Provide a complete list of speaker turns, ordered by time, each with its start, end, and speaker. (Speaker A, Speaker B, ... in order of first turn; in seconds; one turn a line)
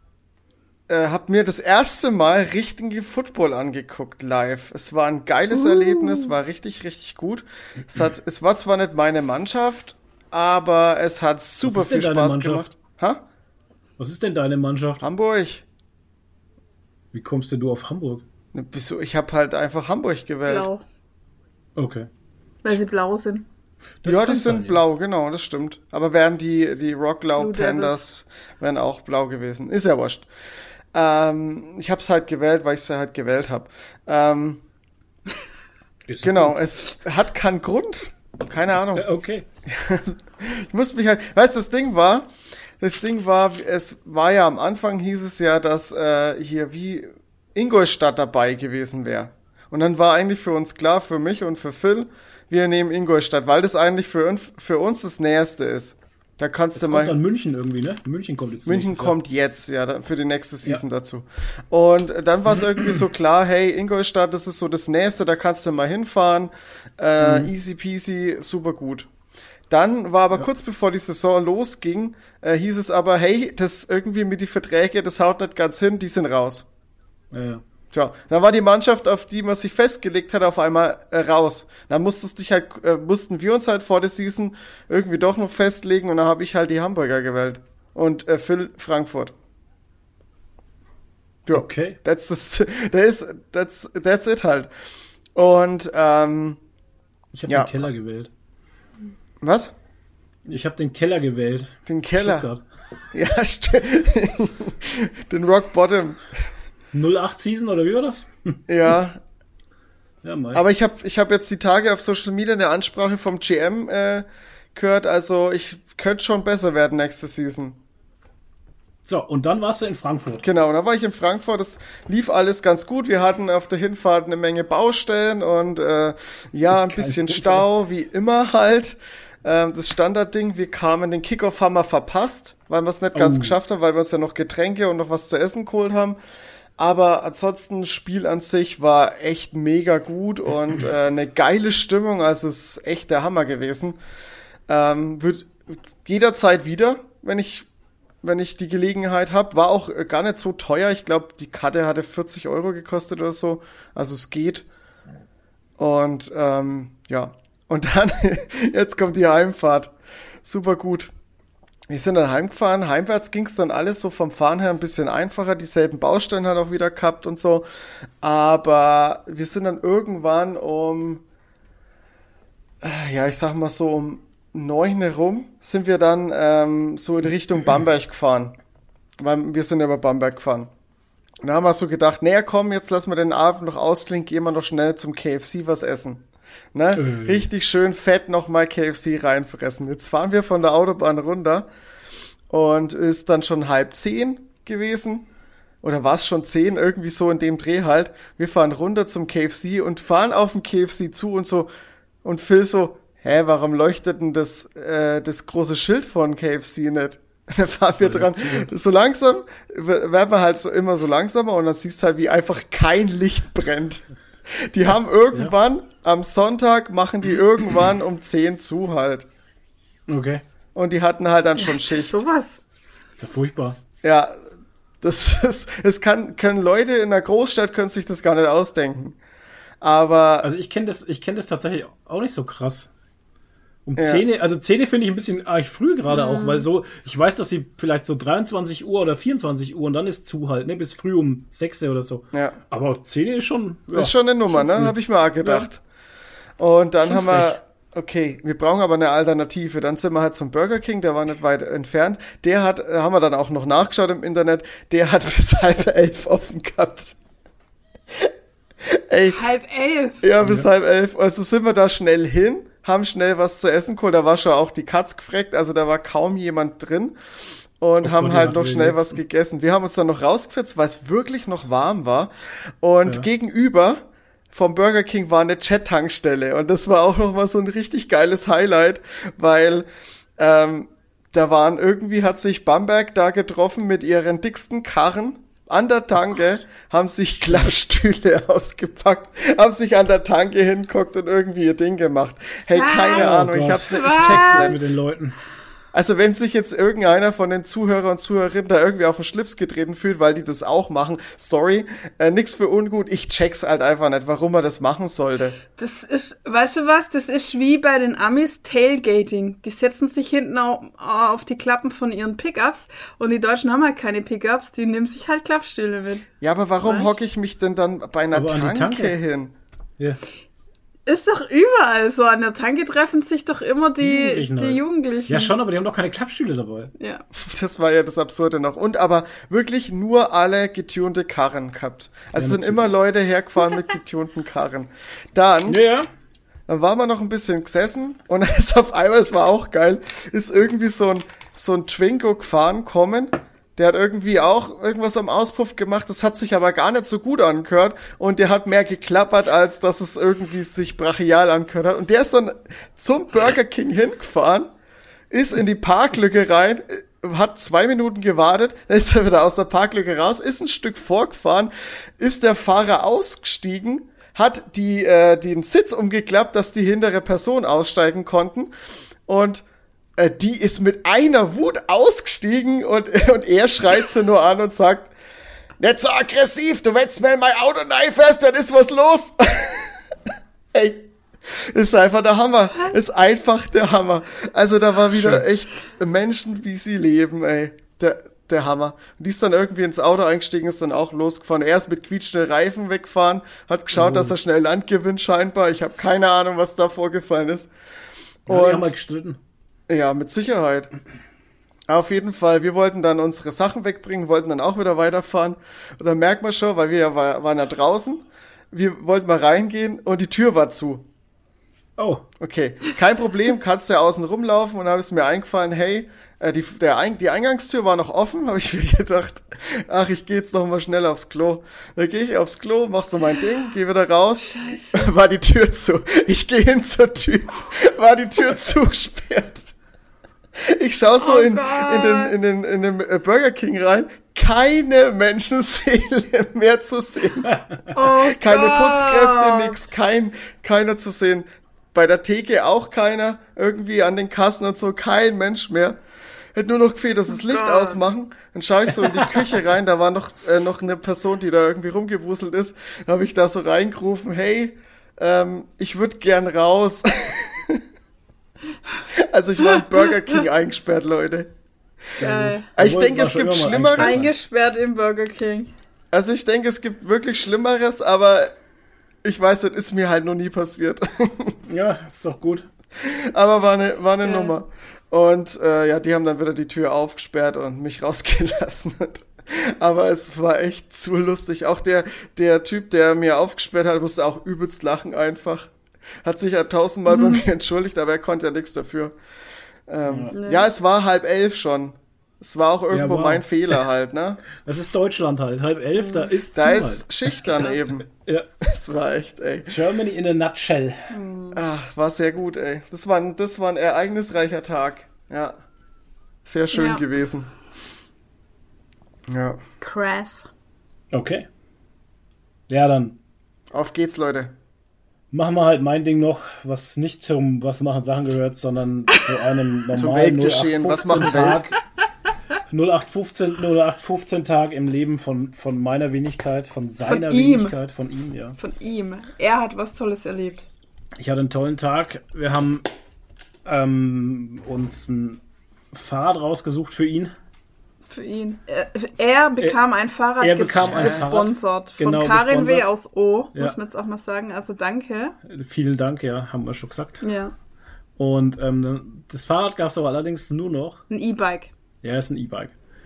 Speaker A: 0.9-13.2
Speaker B: 5.5-6.3
Speaker C: 11.6-12.7
Speaker C: 14.0-15.0
Speaker A: 15.0-15.6
Speaker C: 17.1-18.2
Speaker A: 18.5-20.7
Speaker B: 20.5-20.8
Speaker C: 21.8-22.1
Speaker B: 22.6-23.5
Speaker C: 24.0-24.8
Speaker A: 24.1-30.3
Speaker B: 27.4-28.0
Speaker A: 30.9-34.6
Speaker C: 36.1-36.6
Speaker A: 36.2-39.1
Speaker C: 38.9-39.5
Speaker A: 39.7-57.2
Speaker C: 56.8-59.2
Speaker A: 58.7-69.1
Speaker C: 62.6-63.0
Speaker C: 67.2-67.5
Speaker A: 69.7-76.7
Speaker C: 77.3-77.6
Speaker A: 77.9-89.3
Speaker A: 91.5-94.7
Speaker C: 91.5-92.0
Speaker A: 95.3-96.6
Speaker C: 97.3-98.3
Speaker A: 97.5-97.7
Speaker A: 99.4-99.7
Speaker C: 100.5-102.6
Speaker A: 101.9-102.5
Speaker A: 103.1-106.2
Speaker C: 106.9-108.6
Speaker A: 108.7-109.2
Speaker C: 110.2-110.6
Speaker A: 110.5-117.8
Speaker C: 119.0-120.4
Speaker A: 120.4-136.2
Speaker C: 126.7-127.7
Speaker C: 133.1-133.6
Speaker A: 136.8-144.0
Speaker A: 144.7-147.7
Speaker A: 148.2-154.7
Speaker A: 155.8-161.1
Speaker A: 161.9-167.7
Speaker A: 168.2-171.2
Speaker A: 172.8-178.6
Speaker A: 179.2-180.7
Speaker A: 181.4-191.7
Speaker C: 186.9-187.5
Speaker A: 192.5-195.3
Speaker A: 195.8-201.7
Speaker A: 202.2-219.3
Speaker C: 208.0-208.7
Speaker C: 220.1-220.4
Speaker A: 220.8-222.2
Speaker B: 221.6-222.6
Speaker C: 223.2-223.8
Speaker A: 224.0-224.5
Speaker A: 225.0-229.2
Speaker A: 229.8-230.5
Speaker C: 230.4-232.9
Speaker C: 233.8-245.7
Speaker A: 234.0-234.2
Speaker B: 236.1-236.7
Speaker A: 242.3-242.6
Speaker A: 243.9-245.8
Speaker A: 246.6-257.2
Speaker C: 247.0-247.6
Speaker A: 258.1-259.4
Speaker B: 259.3-260.3
Speaker A: 260.2-267.2
Speaker C: 260.4-260.7
Speaker A: 267.8-279.9
Speaker C: 268.0-269.2
Speaker A: 280.4-294.8
Speaker B: 292.7-294.8
Speaker C: 293.1-295.4
Speaker A: 295.9-305.6
Speaker B: 305.8-316.3
Speaker A: 316.4-319.5
Speaker B: 316.8-317.1
Speaker C: 318.3-319.2
Speaker B: 321.1-325.5
Speaker C: 324.0-326.9
Speaker A: 327.5-335.8
Speaker C: 332.4-332.9
Speaker C: 335.7-336.1
Speaker A: 336.7-354.7
Speaker A: 355.3-368.7
Speaker A: 369.3-369.6
Speaker A: 370.2-375.1
Speaker A: 375.8-380.1
Speaker A: 380.7-397.7
Speaker C: 385.1-385.4
Speaker C: 393.9-394.3
Speaker A: 398.5-398.9
Speaker C: 398.5-399.4
Speaker A: 399.9-400.9
Speaker A: 401.9-411.1
Speaker C: 412.0-412.2
Speaker A: 412.4-429.7
Speaker B: 424.4-425.1
Speaker A: 430.6-446.0
Speaker B: 431.2-432.3
Speaker B: 437.9-439.8
Speaker A: 446.5-457.8
Speaker B: 447.3-448.1
Speaker A: 459.1-461.5
Speaker B: 459.6-460.4
Speaker B: 462.2-462.7
Speaker C: 462.2-464.3
Speaker A: 462.8-464.3
Speaker B: 464.0-465.7
Speaker A: 466.1-468.5
Speaker A: 469.2-471.6
Speaker C: 471.7-472.7
Speaker A: 473.0-485.7
Speaker B: 474.2-474.5
Speaker A: 486.2-489.2
Speaker B: 487.1-487.4
Speaker A: 489.9-494.4
Speaker C: 490.1-490.3
Speaker B: 490.3-490.7
Speaker C: 492.9-493.6
Speaker C: 494.6-497.3
Speaker B: 496.0-496.3
Speaker A: 496.5-498.1
Speaker C: 498.1-498.5
Speaker A: 498.6-499.8
Speaker C: 499.7-501.1
Speaker B: 501.1-501.6
Speaker A: 501.5-505.6
Speaker A: 506.5-507.5
Speaker B: 506.7-507.0
Speaker A: 509.3-509.6
Speaker B: 509.8-510.5
Speaker C: 511.1-511.5
Speaker C: 512.7-513.1
Speaker A: 513.7-514.5
Speaker C: 515.3-521.8
Speaker A: 519.9-521.6
Speaker C: 522.7-528.6
Speaker B: 527.0-527.8
Speaker B: 528.6-530.7
Speaker C: 531.2-532.9
Speaker C: 533.6-535.4
Speaker C: 535.9-537.3
Speaker B: 538.1-545.4
Speaker C: 540.4-542.9
Speaker A: 540.8-541.3
Speaker C: 545.5-547.2
Speaker B: 547.2-547.5
Speaker C: 548.2-551.0
Speaker B: 551.1-551.7
Speaker C: 552.0-552.7